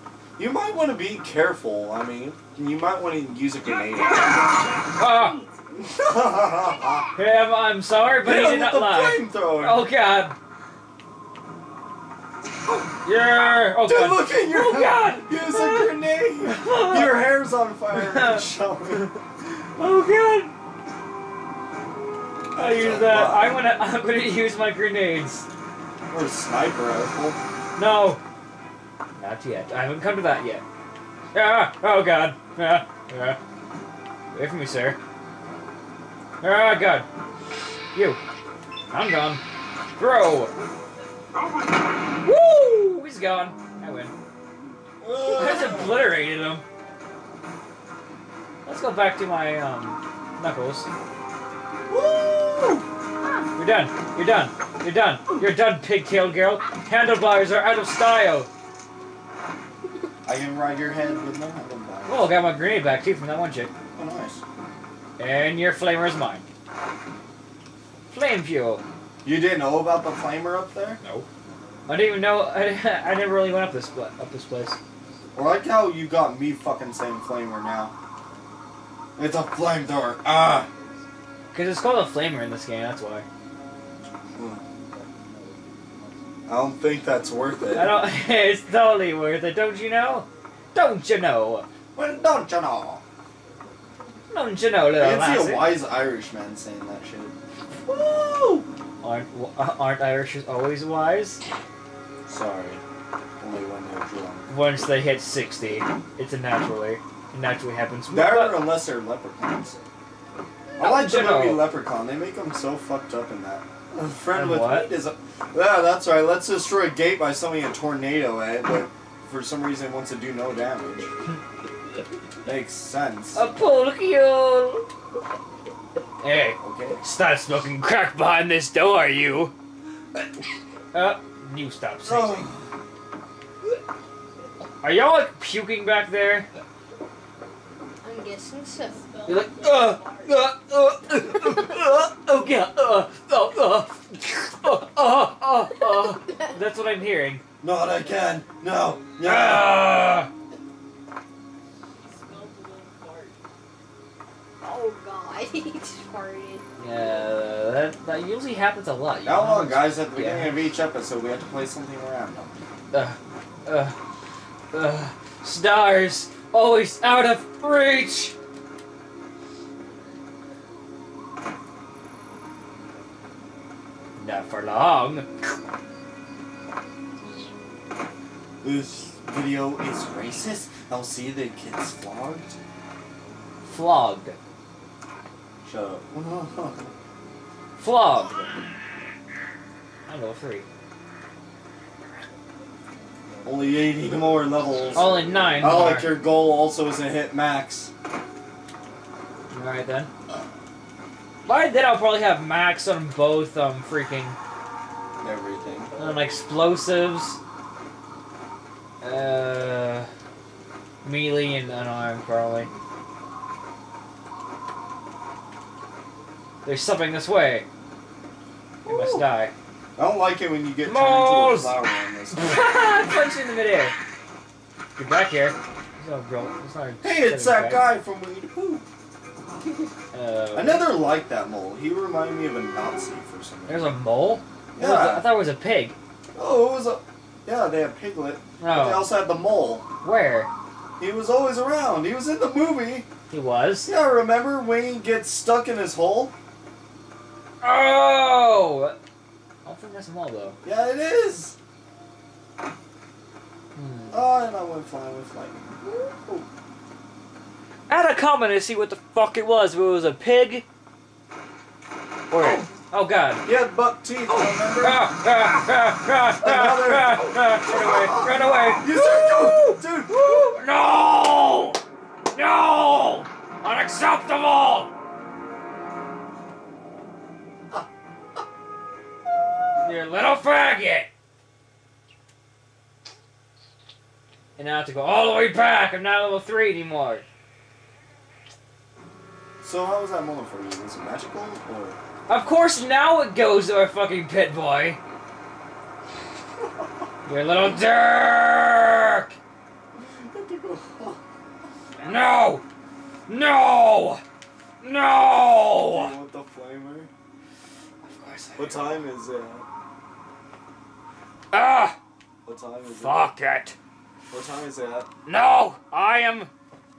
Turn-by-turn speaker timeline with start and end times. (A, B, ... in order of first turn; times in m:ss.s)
0:00.4-0:04.6 A
0:04.3-0:05.5 B
0:05.0-0:05.4 C
0:05.8-0:07.1 A
0:07.2-0:10.4 C
0:08.2-0:09.8 A
0:13.0-0:17.3 C
0:13.8-0:19.1 A
0:17.9-0:18.5 C
0:19.8-0:20.5 C
0:22.5-0:23.6 A
0:22.6-0:25.5 C
0:26.1-0:27.4 A
0:27.8-0:28.2 C
0:29.2-0:30.6 C
0:31.3-0:33.4 C
0:34.3-0:35.0 C
0:36.4-0:37.1 C
0:37.9-0:38.2 C
0:38.9-0:39.4 C
0:40.0-0:40.5 C
0:42.2-0:44.1 C
0:45.0-0:46.1 A
0:45.2-0:46.6 C
0:48.6-0:50.9 C
0:51.9-0:52.9 A
0:53.6-0:58.5 C
1:00.2-1:02.4 A
1:02.1-1:03.7 C
1:03.9-1:04.4 A
1:05.2-1:06.4 C
1:08.1-1:08.8 C
1:09.2-1:11.0 A
1:11.0-1:11.3 C
1:11.9-1:14.8 C
1:15.3-1:17.9 A
1:19.2-1:20.7 A
1:21.5-1:23.3 C
1:24.4-1:24.6 A
1:26.5-1:27.9 A
1:27.7-1:31.7 C
1:32.0-1:33.0 A
1:34.3-1:35.7 C
1:34.9-1:37.3 A
1:37.9-1:38.7 A
1:39.0-1:41.4 C
1:42.3-1:42.8 A
1:43.4-1:44.5 A
1:44.5-1:48.7 C
1:48.1-1:49.8 A
1:50.8-2:01.1 A
1:50.8-1:51.7 C
1:54.3-1:54.9 C
2:02.4-2:03.4 A
2:03.3-2:04.9 C
2:06.2-2:09.5 C
2:06.6-2:07.0 A
2:10.9-2:12.5 C
2:12.1-2:12.7 A
2:14.8-2:16.5 C
2:18.0-2:20.4 B
2:19.3-2:27.4 C
2:27.6-2:29.8 A
2:29.2-2:30.3 C
2:31.9-2:33.4 B
2:34.6-2:36.6 B
2:36.8-2:40.7 C
2:39.2-2:42.6 A
2:42.9-2:43.9 C
2:44.7-2:48.4 C
2:54.2-2:55.3 C
2:58.6-3:02.6 A
3:03.6-3:04.3 C
3:05.6-3:06.9 A
3:07.8-3:08.4 C
3:10.1-3:10.7 C
3:13.4-3:17.9 A
3:14.9-3:16.2 C
3:19.5-3:20.1 C
3:21.4-3:24.4 C
3:25.2-3:25.9 A
3:26.0-3:27.4 C
3:29.0-3:30.1 C
3:31.0-3:32.7 C
3:36.6-3:37.7 C
3:38.9-3:39.2 A
3:38.9-3:39.5 C
3:40.0-3:42.7 A
3:40.8-3:41.8 C
3:42.3-3:44.0 C
3:45.0-3:47.9 C
3:47.0-3:48.8 A
3:50.1-3:50.9 C
3:50.5-3:53.9 A
3:53.7-3:55.9 C
3:54.8-3:55.3 A
3:56.3-3:59.8 A
3:58.6-3:59.2 C
4:00.0-4:00.5 C
4:01.0-4:03.1 A
4:03.3-4:03.9 C
4:03.9-4:06.3 A
4:07.6-4:09.0 C
4:09.6-4:10.6 C
4:10.6-4:11.6 A
4:13.8-4:14.3 C
4:14.1-4:16.4 A
4:17.9-4:20.7 C
4:22.3-4:23.4 C
4:23.4-4:25.1 A
4:24.7-4:31.8 C
4:26.4-4:30.6 A
4:32.3-4:34.9 C
4:39.8-4:41.1 C
4:44.6-4:47.2 C
4:49.6-4:52.0 A
4:52.3-4:55.0 C
4:57.3-4:59.4 C
4:59.9-5:01.2 A
5:02.0-5:02.6 C
5:03.3-5:04.2 C
5:04.8-5:06.2 C
5:05.8-5:07.1 A
5:08.0-5:09.0 C
5:08.6-5:09.7 A
5:11.5-5:12.0 C
5:12.4-5:13.2 A
5:12.9-5:13.8 C
5:14.3-5:15.1 A
5:15.3-5:16.5 C